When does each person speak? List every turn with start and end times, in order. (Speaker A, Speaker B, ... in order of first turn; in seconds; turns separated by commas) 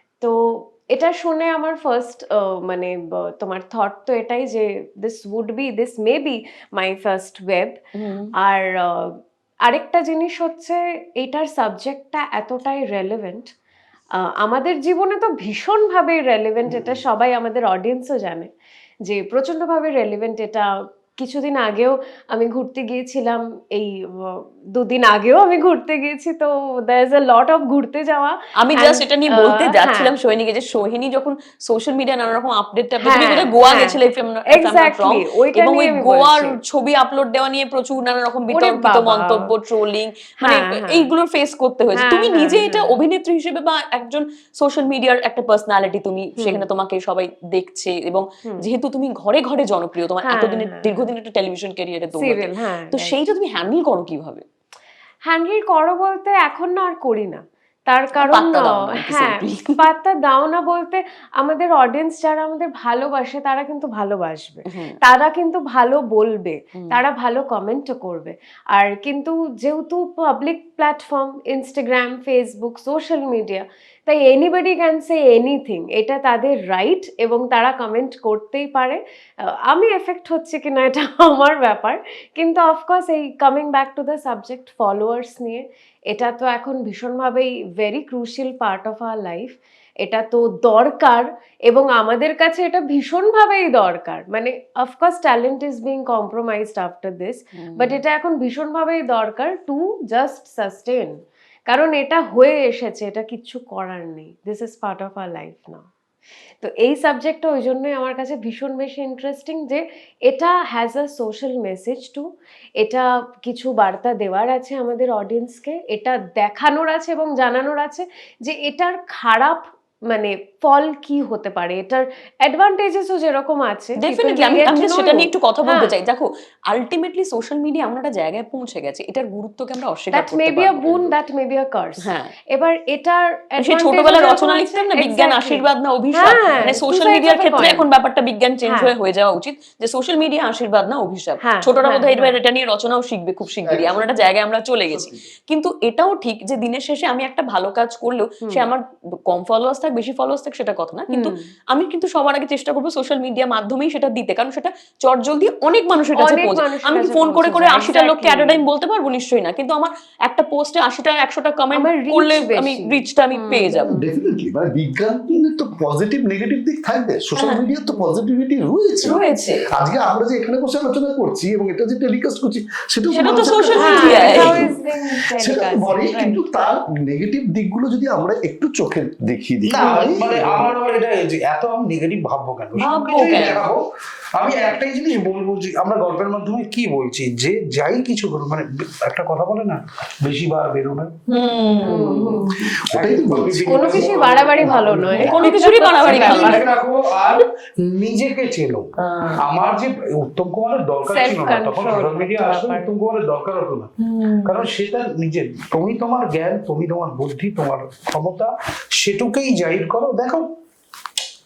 Speaker A: 0.2-7.8, Speaker B: 7.9-8.3, Speaker A: 8.4-9.1, Speaker A: 9.7-13.5, Speaker A: 14.4-18.5, Speaker C: 16.7-17.0, Speaker A: 19.0-30.1, Speaker B: 28.6-54.4, Speaker A: 33.0-36.6, Speaker A: 38.5-39.5, Speaker A: 40.4-41.1, Speaker A: 41.9-43.0, Speaker A: 46.4-46.6, Speaker A: 50.2-50.9, Speaker A: 52.1-53.2, Speaker A: 55.3-79.0, Speaker B: 58.2-59.8, Speaker B: 64.7-65.0, Speaker A: 79.6-101.2, Speaker B: 97.5-98.0, Speaker A: 101.7-105.8, Speaker A: 106.6-112.2, Speaker A: 112.8-125.9, Speaker B: 124.0-131.1, Speaker A: 130.1-137.9, Speaker B: 132.0-132.3, Speaker B: 133.6-164.0, Speaker A: 138.7-138.9, Speaker A: 141.4-142.3, Speaker C: 143.7-144.3, Speaker C: 144.9-145.3, Speaker A: 151.1-151.4, Speaker A: 156.1-158.6, Speaker A: 161.7-164.0, Speaker C: 163.9-169.2, Speaker B: 167.4-167.6, Speaker A: 167.8-168.1, Speaker B: 169.0-169.6, Speaker C: 169.7-174.8, Speaker B: 173.1-174.6, Speaker A: 173.8-176.4, Speaker C: 175.4-180.7, Speaker D: 179.6-183.8, Speaker B: 182.8-183.6, Speaker D: 184.4-191.1, Speaker B: 191.3-192.5, Speaker A: 191.8-192.7, Speaker C: 192.8-194.1, Speaker D: 192.9-195.4, Speaker A: 193.7-196.7, Speaker B: 195.1-196.7, Speaker D: 196.0-198.9, Speaker B: 199.0-199.4, Speaker D: 199.4-203.9, Speaker A: 201.1-202.9, Speaker B: 204.0-204.5, Speaker D: 204.4-210.5